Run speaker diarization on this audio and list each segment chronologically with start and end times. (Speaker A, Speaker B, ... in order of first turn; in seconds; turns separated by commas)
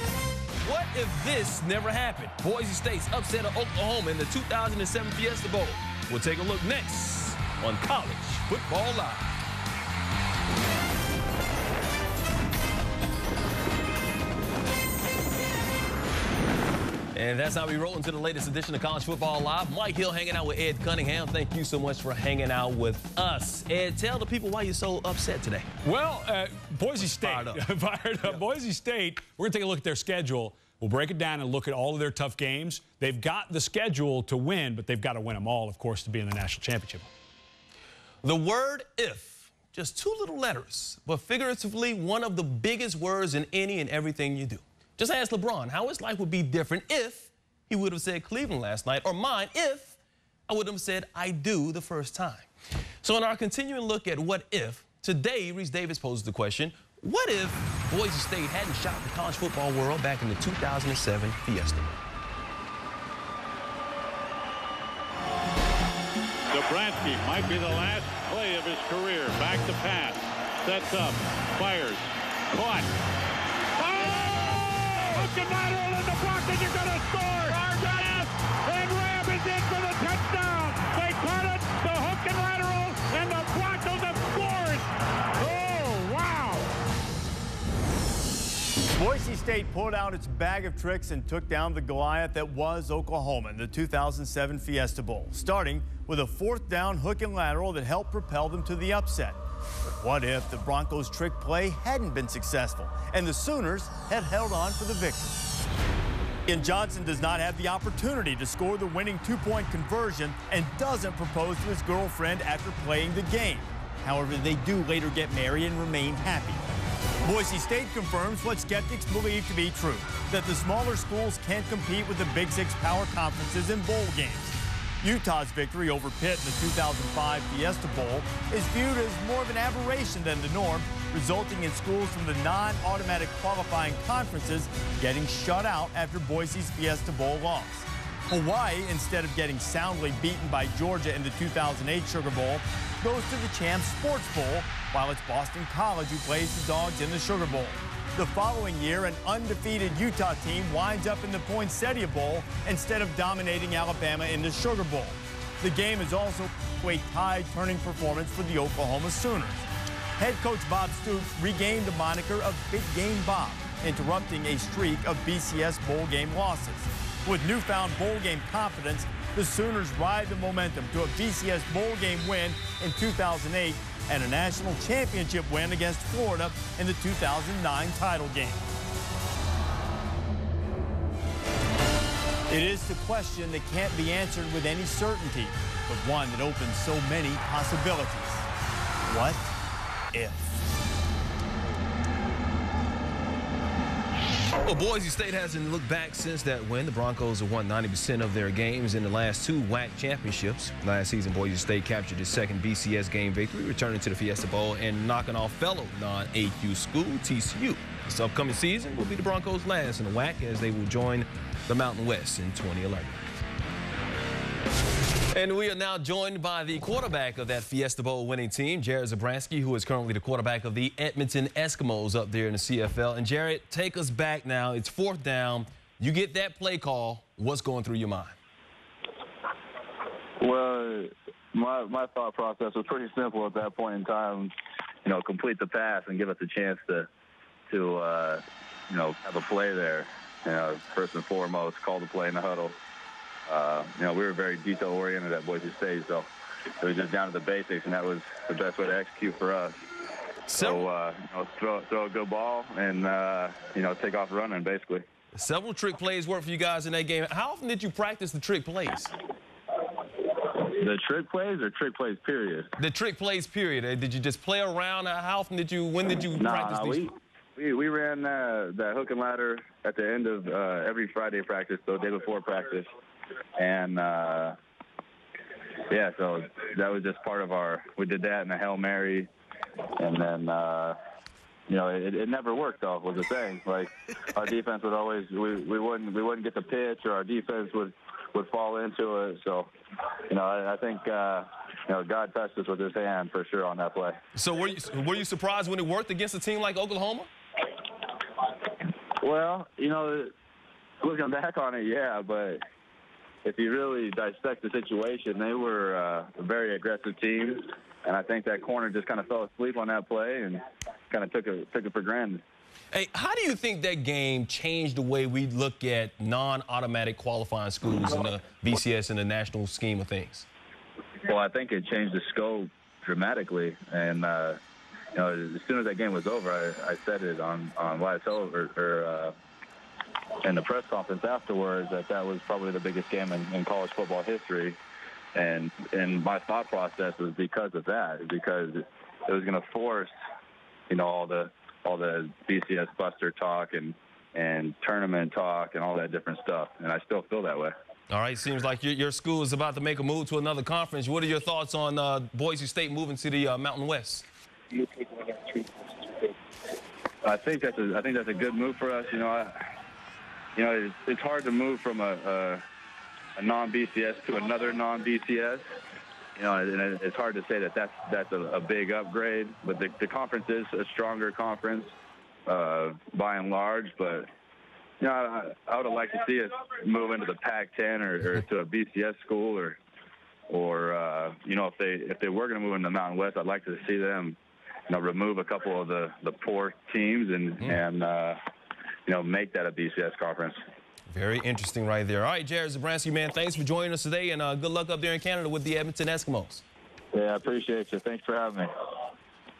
Speaker A: 0.6-9.3, Speaker A: 17.1-25.7, Speaker B: 25.8-37.0, Speaker A: 27.0-27.6, Speaker A: 38.2-52.5, Speaker A: 53.0-62.0, Speaker C: 66.5-72.9, Speaker C: 73.8-84.9, Speaker C: 85.4-86.7, Speaker D: 88.9-99.4, Speaker D: 100.0-105.5, Speaker D: 106.5-116.6, Speaker D: 117.2-159.7, Speaker D: 160.2-178.6, Speaker D: 182.5-188.5, Speaker D: 189.1-189.5, Speaker D: 190.1-190.6, Speaker A: 194.6-213.3, Speaker A: 215.3-228.3, Speaker E: 230.4-234.5, Speaker E: 235.0-237.1, Speaker E: 237.7-242.7, Speaker E: 243.5-246.3, Speaker E: 246.8-249.8, Speaker A: 250.5-250.9, Speaker E: 250.5-255.0, Speaker A: 255.3-259.1, Speaker E: 260.3-262.7, Speaker A: 262.8-267.1, Speaker E: 266.3-272.9, Speaker E: 273.6-274.6, Speaker E: 275.9-279.3, Speaker E: 280.0-280.9, Speaker E: 281.7-289.7, Speaker E: 290.3-294.1, Speaker A: 294.3-297.3, Speaker E: 299.2-300.3, Speaker E: 301.0-302.6, Speaker E: 303.4-312.4, Speaker A: 312.9-320.5, Speaker E: 321.2-324.6, Speaker E: 325.1-329.3, Speaker E: 330.4-334.8, Speaker E: 335.3-340.1, Speaker E: 340.9-347.7, Speaker A: 348.1-354.2, Speaker E: 357.2-359.5, Speaker E: 360.6-362.6, Speaker E: 363.4-365.6, Speaker E: 366.4-371.9, Speaker E: 372.4-374.3, Speaker E: 375.0-379.8, Speaker E: 380.5-384.4, Speaker E: 384.9-388.4, Speaker E: 389.1-390.6, Speaker A: 391.1-396.6, Speaker E: 397.1-398.7